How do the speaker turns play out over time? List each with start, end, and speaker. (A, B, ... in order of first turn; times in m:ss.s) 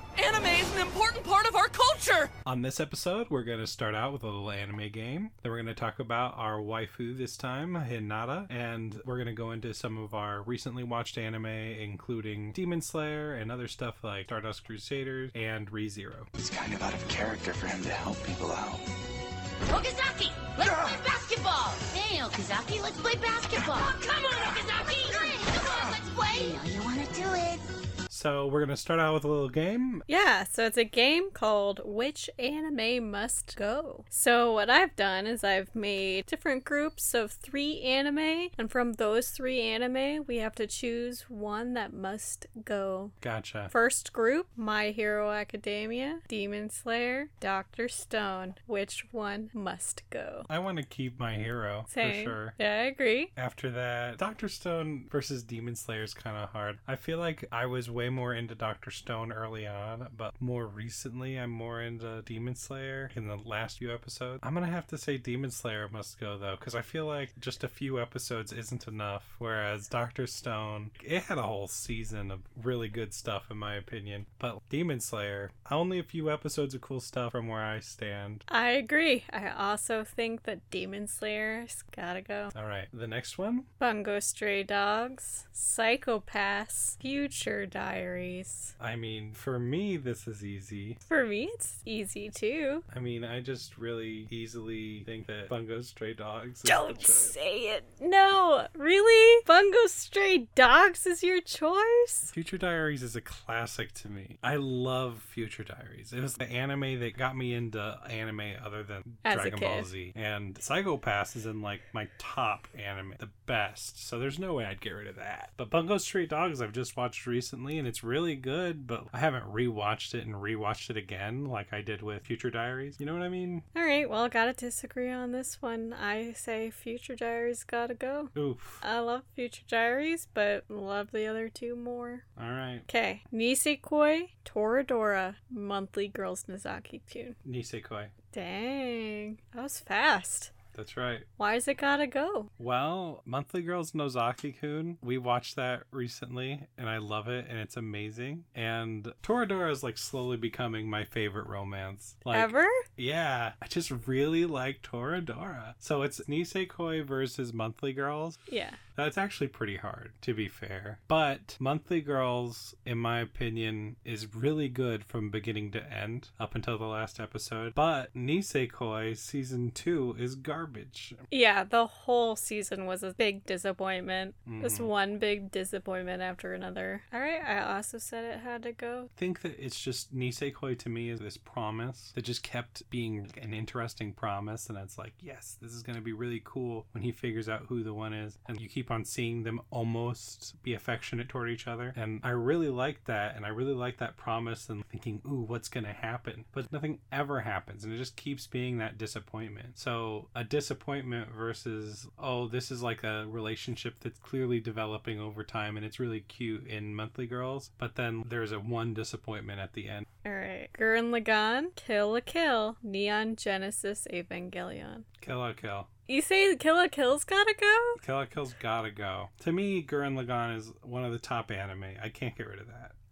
0:00.2-0:02.3 A
0:02.4-0:16.3 B
0:16.4-0:18.8 C
0:19.7-0:27.6 D
0:20.4-0:21.9 A
0:23.5-0:26.5 A
0:28.1-0:30.0 B
0:30.1-0:43.1 E
0:43.2-0:43.7 B
0:43.7-0:50.5 E
0:50.5-0:52.6 B
0:51.9-0:53.3 E
0:53.3-1:18.4 B
1:18.5-1:22.5 E
1:22.5-1:23.7 B
1:23.8-1:28.7 E
1:28.8-1:31.0 B
1:31.0-1:32.8 E
1:32.9-1:37.4 B
1:36.6-1:42.3 E
1:42.3-2:03.6 B
1:49.2-1:49.9 E
2:03.7-2:12.2 E
2:08.3-2:08.8 B
2:12.4-2:12.8 B
2:12.9-2:17.4 E
2:17.4-2:18.1 B
2:18.3-2:20.5 E
2:20.7-2:21.3 B
2:21.4-2:22.5 E
2:22.6-2:51.3 B
2:32.3-2:32.8 E
2:38.5-2:38.8 E
2:51.3-2:59.1 E
2:54.4-2:54.9 B
2:59.2-3:30.1 B
3:30.2-3:35.0 E
3:35.2-3:35.9 B
3:36.1-3:38.0 E
3:38.0-3:42.9 B